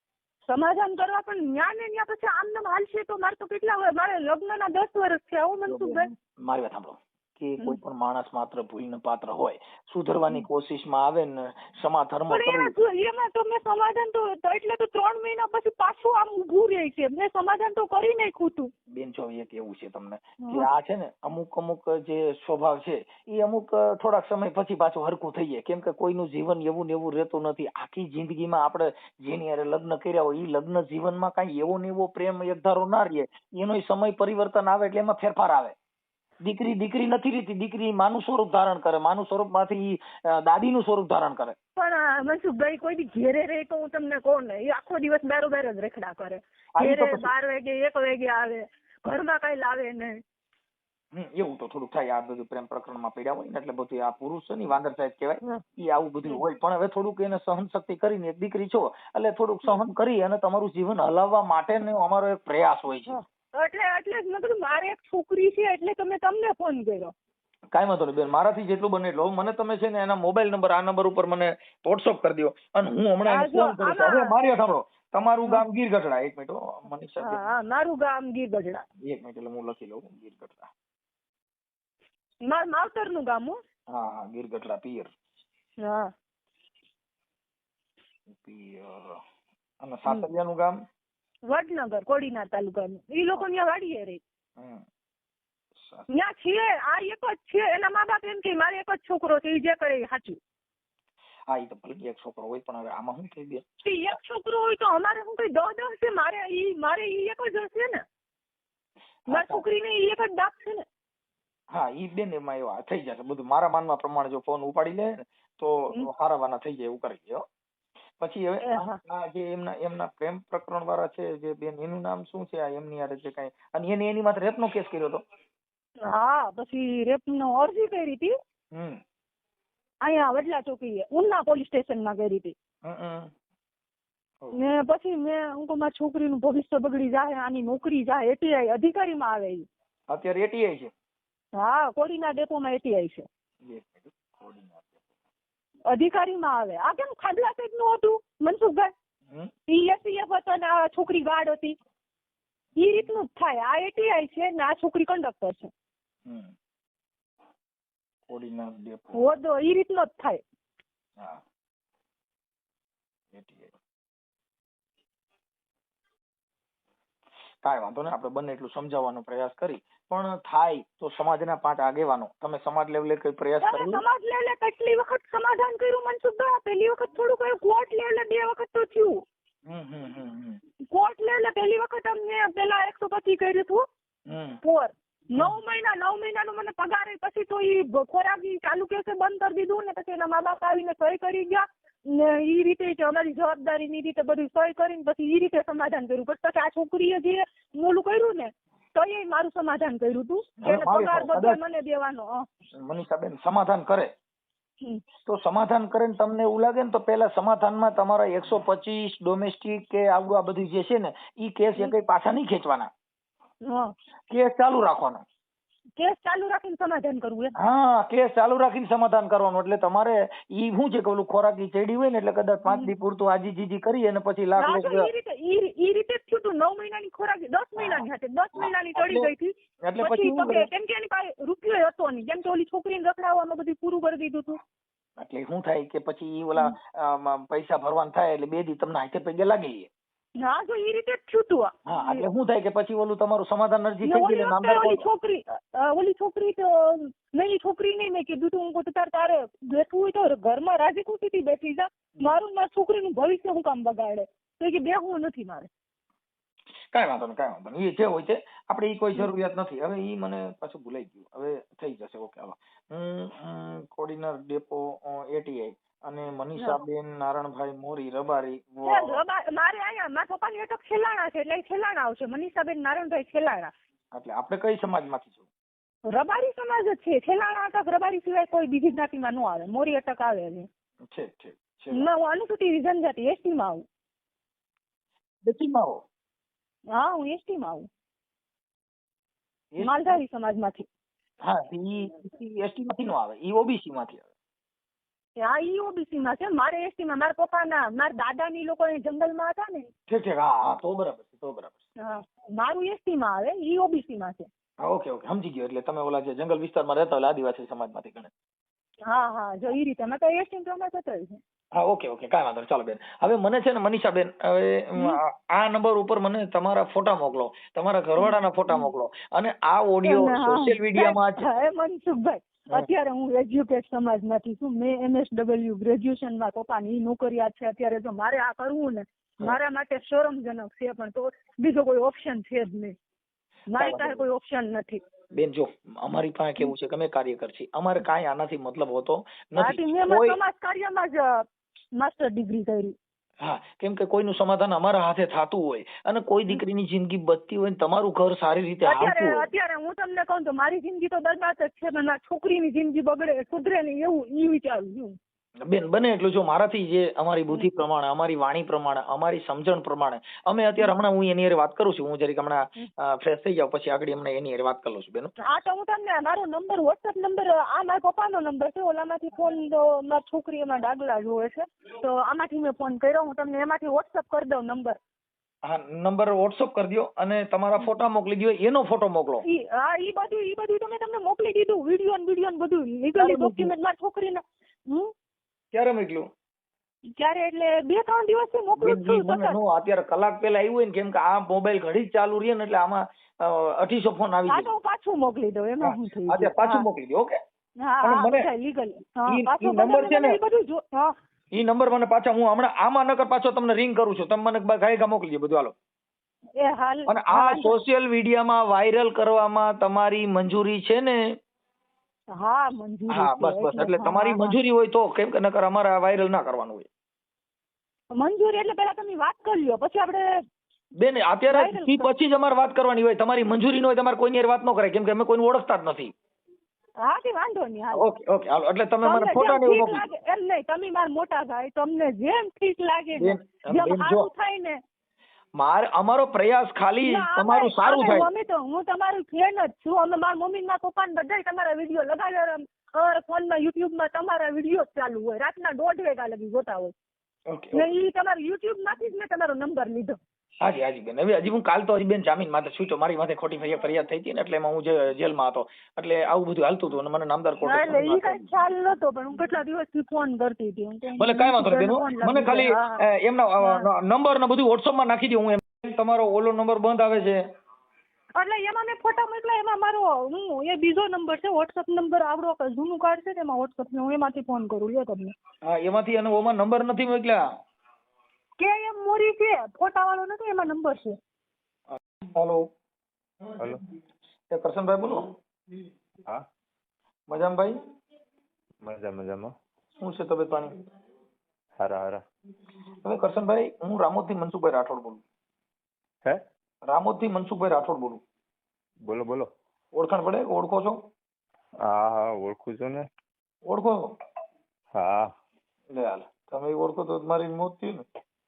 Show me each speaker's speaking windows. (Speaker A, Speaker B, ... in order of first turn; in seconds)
Speaker A: 0.5-6.1, 12.3-18.7, 20.4-20.7, 41.8-50.2, 63.1-67.1, 73.3-74.3, 77.2-78.8, 82.5-83.6, 85.8-86.1, 91.5-94.2, 96.1-100.4, 103.8-108.0, 109.3-110.8, 118.6-119.0, 126.0-128.3, 130.0-132.6, 134.5-139.7, 141.6-143.3, 145.9-148.9, 149.7-151.8, 152.8-155.7, 159.2-160.4, 173.6-179.2, 180.9-183.9, 184.6-202.5, 213.7-213.9, 216.0-217.5, 222.7-222.9, 224.6-234.6, 240.4-242.3, 244.0-255.7, 268.8-273.7, 276.1-280.7, 281.9-283.9, 286.9-287.9, 289.8-290.9, 295.4-299.9, 302.0-304.5, 309.1-311.4, 318.2-318.9, 320.0-332.9, 333.7-335.0, 339.6-341.5, 342.0-343.0, 348.8-355.2, 365.4-375.0, 379.4-385.1, 387.2-389.6, 394.5-396.9, 397.8-401.1, 406.6-407.8, 412.4-414.6, 418.2-420.4, 421.5-422.1, 427.0-428.1, 429.0-434.8, 437.0-446.9, 447.7-450.2, 457.6-463.0, 463.6-463.9, 468.4-475.3, 478.6-481.2
Speaker B: 5.7-12.7, 18.9-35.8, 36.4-41.6, 46.8-47.3, 51.1-63.2, 67.7-77.4, 79.0-80.7, 83.9-85.1, 88.3-89.2, 89.8-90.8, 94.6-94.8, 95.8-96.1, 101.5-103.6, 109.3-109.6, 111.7-117.5, 118.2-125.2, 128.7-129.0, 132.8-133.3, 140.1-140.9, 143.6-145.1, 156.3-156.5, 158.3-159.3, 163.3-163.8, 167.6-174.0, 179.7-180.6, 184.3-184.6, 200.6-201.6, 202.7-204.1, 205.3-212.9, 214.3-215.2, 217.6-225.1, 227.8-229.3, 229.8-230.7, 235.2-239.9, 241.9-245.1, 256.9-269.2, 274.1-275.5, 281.1-282.1, 285.4-286.0, 289.7-290.1, 291.4-294.3, 300.1-301.8, 304.8-308.3, 311.8-321.5, 333.8-334.2, 335.3-340.4, 343.4-349.5, 355.6-365.3, 375.6-379.4, 383.1-383.7, 385.7-386.3, 388.8-394.7, 395.8-397.4, 398.0-398.5, 399.3-400.4, 401.5-405.8, 407.1-411.2, 413.1-416.9, 421.0-426.1, 427.9-430.1, 433.2-434.3, 435.6-438.3, 447.5-447.9, 450.6-458.5, 461.2-467.4, 475.6-477.4, 481.9-482.6, 484.5-485.3, 487.3-487.7, 490.0-490.7, 493.0-495.2, 496.9-498.2, 499.9-501.0, 503.7-504.1, 505.9-508.1
Speaker C: 488.8-489.5, 491.8-492.2, 499.1-499.5, 501.8-503.1, 504.9-505.3